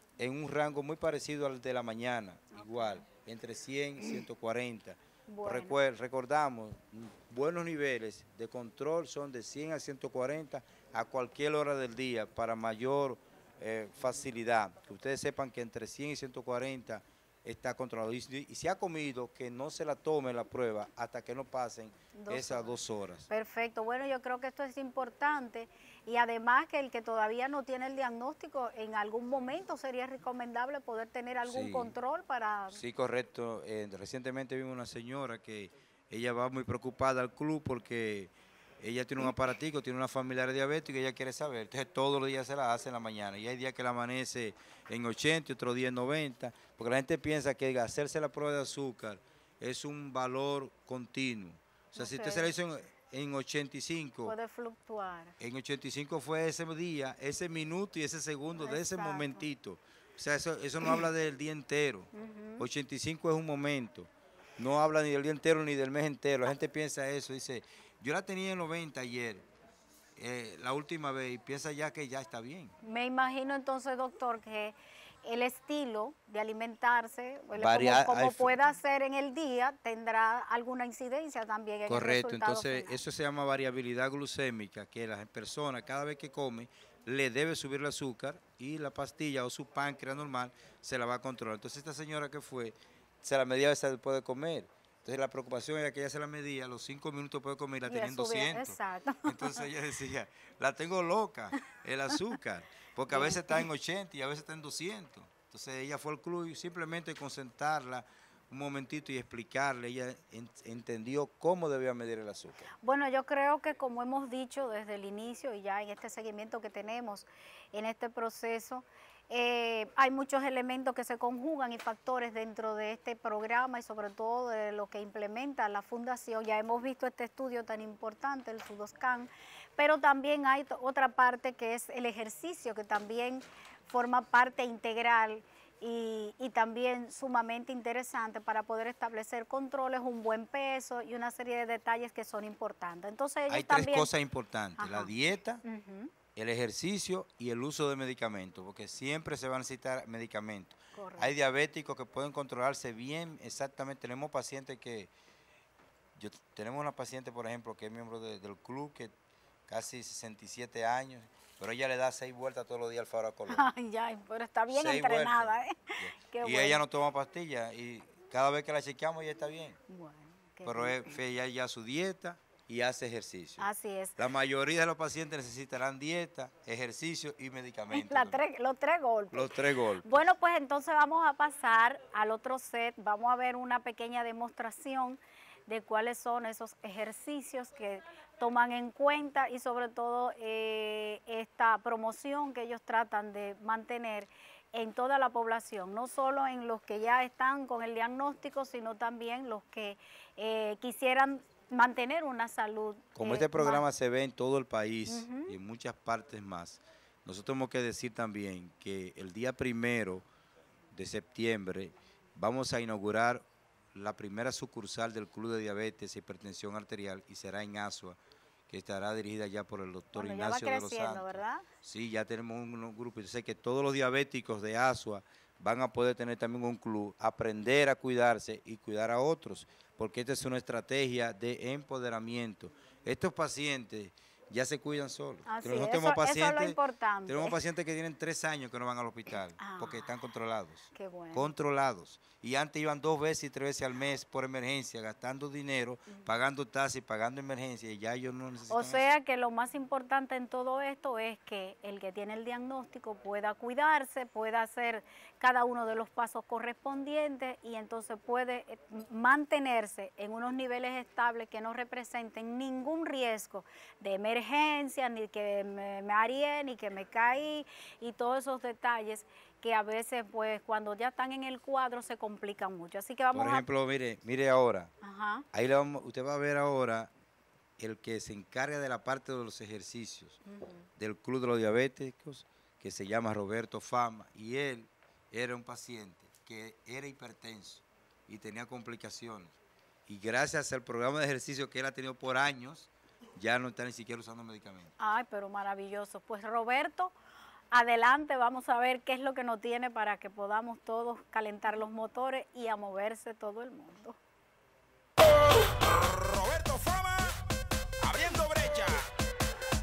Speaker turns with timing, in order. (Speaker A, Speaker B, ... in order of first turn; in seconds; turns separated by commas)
Speaker A: 0.2-23.3, Speaker B: 2.5-3.0, Speaker B: 5.3-5.8, Speaker B: 22.1-22.8, Speaker B: 23.3-32.8, Speaker A: 31.4-31.9, Speaker A: 32.7-54.4, Speaker B: 52.0-52.5, Speaker B: 54.2-55.4, Speaker A: 55.4-69.5, Speaker B: 58.6-59.5, Speaker B: 62.1-62.6, Speaker A: 70.2-72.7, Speaker B: 72.8-83.0, Speaker A: 77.5-78.7, Speaker A: 81.9-112.7, Speaker B: 97.9-99.7, Speaker B: 103.1-103.6, Speaker B: 112.8-144.1, Speaker A: 143.5-145.6, Speaker B: 144.8-145.1, Speaker B: 145.6-146.1, Speaker A: 146.3-155.1, Speaker B: 150.9-151.3, Speaker A: 156.2-159.1, Speaker A: 159.7-163.7, Speaker B: 163.5-166.8, Speaker A: 164.7-169.8, Speaker B: 169.9-171.0, Speaker A: 170.6-178.4, Speaker B: 173.6-174.2, Speaker B: 177.9-203.9, Speaker A: 179.3-180.1, Speaker A: 203.1-210.3, Speaker B: 205.1-205.5, Speaker A: 210.9-249.1, Speaker B: 220.1-221.7, Speaker B: 235.5-237.6, Speaker B: 239.6-240.1, Speaker B: 240.9-241.5, Speaker B: 248.7-273.7, Speaker A: 273.3-274.9, Speaker B: 275.0-275.4, Speaker A: 275.5-277.1, Speaker A: 277.8-280.4, Speaker B: 280.4-280.9, Speaker A: 281.0-294.9, Speaker B: 295.0-297.1, Speaker B: 297.7-304.2, Speaker C: 305.2-307.4, Speaker C: 308.0-309.1